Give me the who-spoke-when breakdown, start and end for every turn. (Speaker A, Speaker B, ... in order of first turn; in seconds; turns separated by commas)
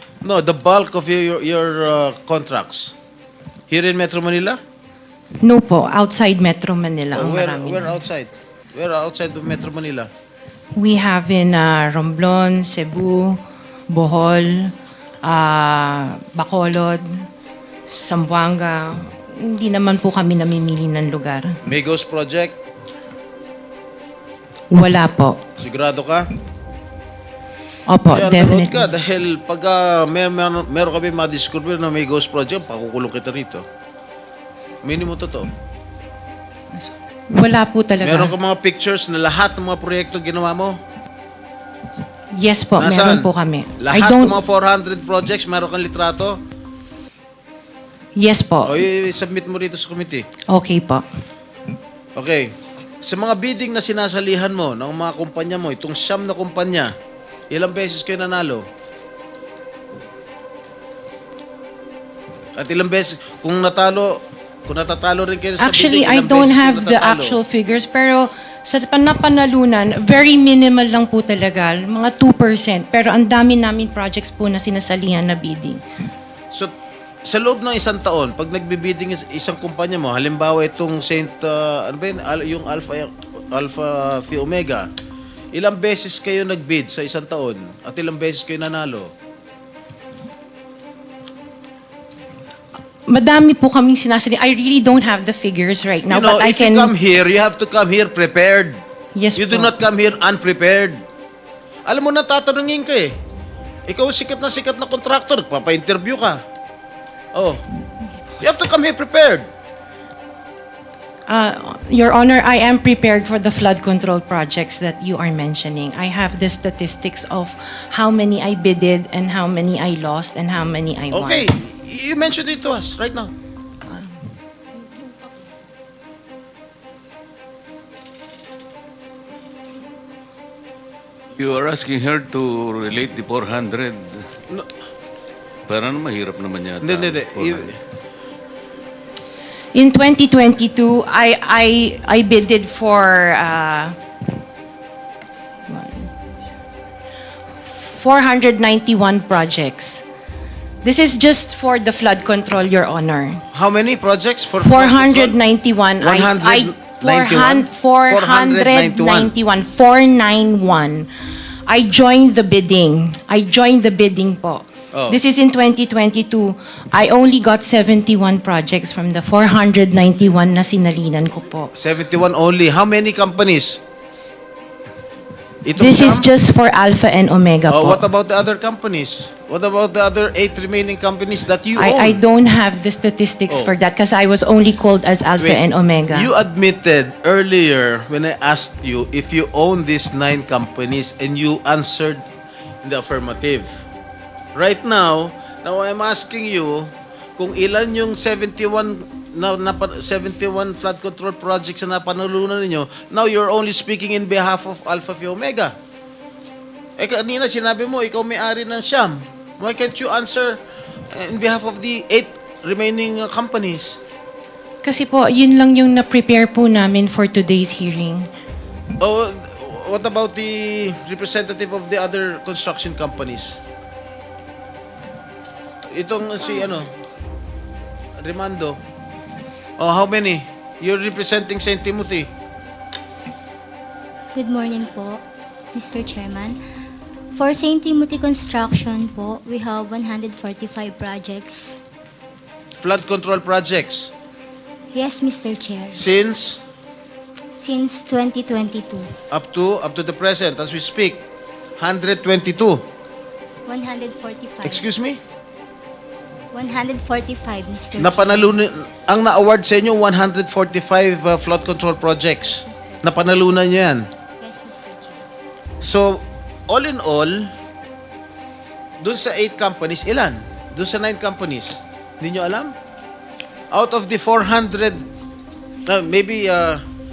Speaker A: 0.2-3.0, Speaker A: 3.7-4.6, Speaker B: 5.4-8.0, Speaker A: 7.1-10.1, Speaker B: 10.7-17.2, Speaker B: 17.9-21.6, Speaker A: 21.6-22.6, Speaker B: 24.7-25.4, Speaker A: 25.6-26.3, Speaker B: 27.9-28.9, Speaker A: 28.1-33.7, Speaker A: 34.8-35.5, Speaker B: 36.8-38.3, Speaker A: 38.0-40.8, Speaker B: 42.3-44.4, Speaker A: 42.8-46.4, Speaker B: 48.2-48.8, Speaker A: 48.6-50.3, Speaker B: 50.5-51.0, Speaker A: 52.2-52.5, Speaker A: 53.0-56.9, Speaker A: 57.5-58.6, Speaker A: 62.5-67.4, Speaker B: 65.6-75.8, Speaker A: 77.2-84.9, Speaker A: 85.5-89.1, Speaker B: 93.1-96.9, Speaker A: 96.1-98.8, Speaker B: 99.1-99.7, Speaker A: 99.4-101.0, Speaker A: 101.9-103.2, Speaker A: 103.9-106.4, Speaker A: 107.3-107.6, Speaker A: 108.4-109.5, Speaker B: 111.3-121.5, Speaker A: 121.1-123.3, Speaker C: 131.4-134.3, Speaker C: 135.7-137.7, Speaker A: 136.8-137.7, Speaker B: 139.7-144.0, Speaker B: 145.7-146.1, Speaker B: 147.7-150.0, Speaker B: 150.8-153.4, Speaker A: 153.5-155.3, Speaker B: 154.6-161.1, Speaker A: 156.0-159.3, Speaker B: 161.7-171.7, Speaker A: 164.9-165.2, Speaker A: 171.8-173.8, Speaker A: 175.7-176.3, Speaker B: 175.8-178.0, Speaker A: 177.7-182.2, Speaker B: 181.8-186.3, Speaker A: 185.4-192.2, Speaker A: 192.8-193.7, Speaker A: 194.6-205.8, Speaker A: 207.0-210.6, Speaker A: 211.1-214.0, Speaker B: 214.8-218.3, Speaker A: 219.0-223.6, Speaker A: 225.9-226.9, Speaker A: 228.2-228.8, Speaker A: 229.8-232.3, Speaker D: 234.3-236.6, Speaker D: 237.3-241.8, Speaker A: 242.8-244.1, Speaker D: 244.9-246.0, Speaker A: 245.9-246.6, Speaker D: 247.6-249.1, Speaker A: 249.3-251.2, Speaker A: 251.8-252.9, Speaker D: 253.7-254.8, Speaker A: 254.6-255.2, Speaker D: 256.5-258.6, Speaker A: 258.0-264.1, Speaker D: 262.4-263.1, Speaker D: 264.4-265.3, Speaker A: 265.8-267.5, Speaker A: 269.0-272.7, Speaker A: 273.7-275.1, Speaker A: 275.9-276.8